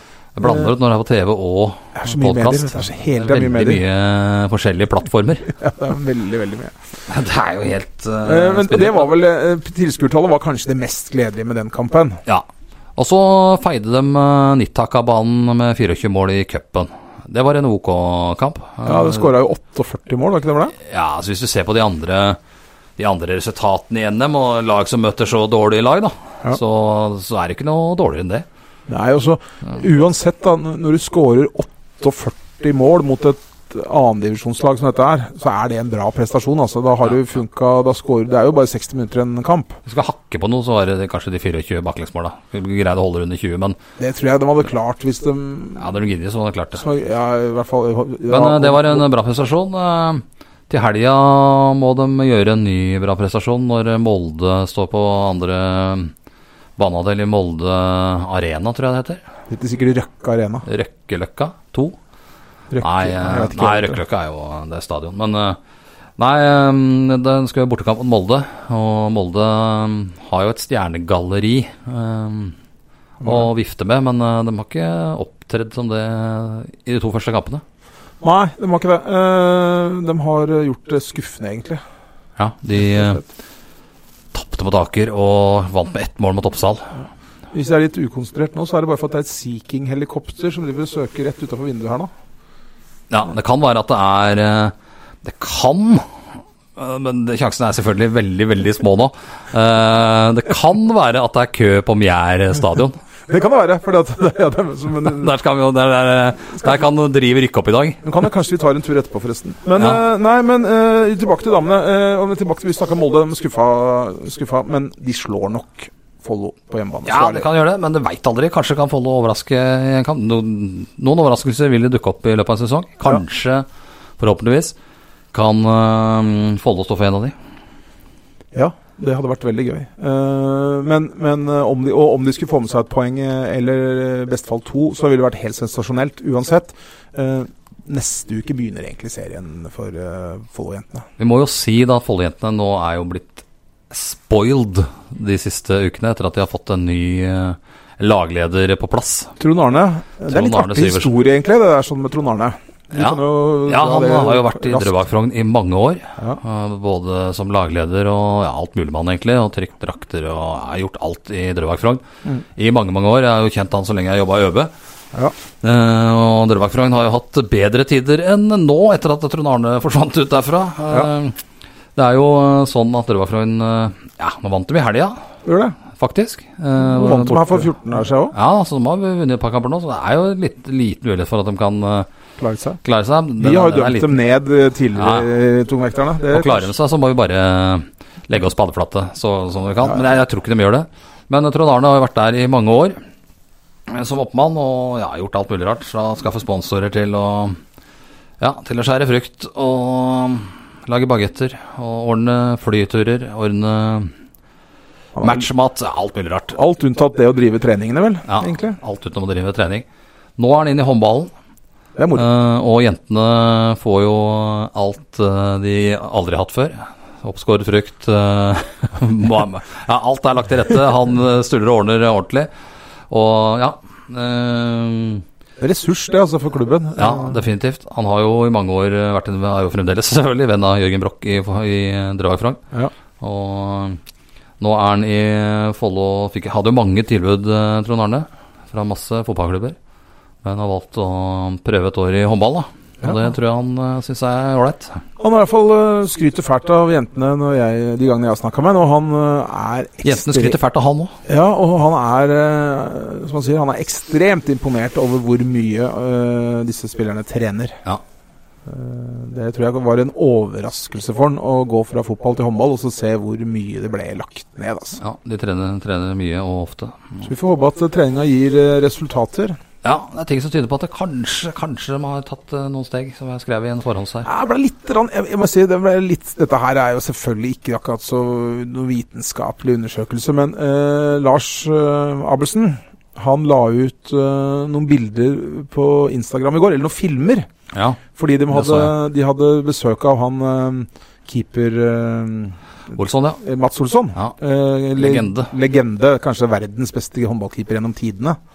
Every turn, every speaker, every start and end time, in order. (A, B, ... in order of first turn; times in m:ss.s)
0:00.3-0:05.5 A
0:00.4-0:00.7 B
0:02.0-0:03.8 B
0:05.5-0:06.7 B
0:07.1-0:09.1 A
0:08.2-0:12.2 B
0:12.2-0:19.3 A
0:18.8-0:20.7 B
0:20.8-0:22.4 A
0:23.0-0:28.4 A
0:28.9-0:39.8 B
0:39.8-0:43.8 A
0:44.0-0:45.9 B
0:45.8-0:46.8 A
0:46.7-0:49.0 B
0:48.3-0:56.1 A
0:56.8-0:59.2 A
0:59.5-1:00.6 B
1:00.6-1:02.0 A
1:02.7-1:04.0 B
1:02.8-1:05.6 A
1:06.2-1:12.5 A
1:13.2-1:13.5 B
1:13.2-1:17.6 A
1:18.2-1:21.8 B
1:22.4-1:23.2 A
1:22.8-1:23.2 B
1:24.3-1:27.0 A
1:27.5-1:32.1 B
1:33.1-1:36.0 A
1:36.8-1:43.0 A
1:43.3-1:45.3 B
1:45.0-1:48.0 A
1:48.0-1:57.5 B
1:49.7-1:50.0 A
1:57.0-2:03.6 A
2:04.2-2:04.7 A
2:05.3-2:07.3 A
2:08.5-2:21.0 B
2:21.2-2:29.3 A
2:29.4-2:35.0 B
2:30.3-2:31.1 A
2:33.0-2:42.0 A
2:42.6-2:44.7 A
2:45.6-2:51.4 A
2:52.0-2:55.2 A
2:55.4-2:55.8 B
2:55.9-2:57.7 A
2:56.8-2:58.3 B
2:58.3-3:02.1 A
3:02.4-3:02.8 B
3:02.8-3:04.2 A
3:03.4-3:06.7 B
3:05.0-3:05.3 A
3:06.3-3:13.0 A
3:13.9-3:17.6 A
3:18.4-3:24.1 A
3:25.1-3:25.5 B
3:25.2-3:26.5 A
3:26.5-3:28.8 B
3:28.3-3:29.8 A
3:30.4-3:31.3 A
3:32.0-3:32.3 B
3:32.1-3:42.5 A
3:43.1-3:45.2 A
3:45.6-3:47.4 B
3:47.0-3:52.6 A
3:53.2-3:54.0 A
3:54.6-3:59.8 A
4:00.4-4:05.0 A
4:03.0-4:03.3 B
4:05.2-4:10.6 B
4:10.0-4:11.2 A
4:11.2-4:17.8 B
4:18.6-4:25.0 B
4:25.0-4:27.3 A
4:27.2-4:29.6 B
4:29.8-4:34.3 A
4:34.2-4:47.5 B
4:47.7-4:48.9 A
4:48.1-4:52.6 B
4:52.9-4:53.4 A
4:53.4-4:58.4 B
4:55.0-4:55.5 A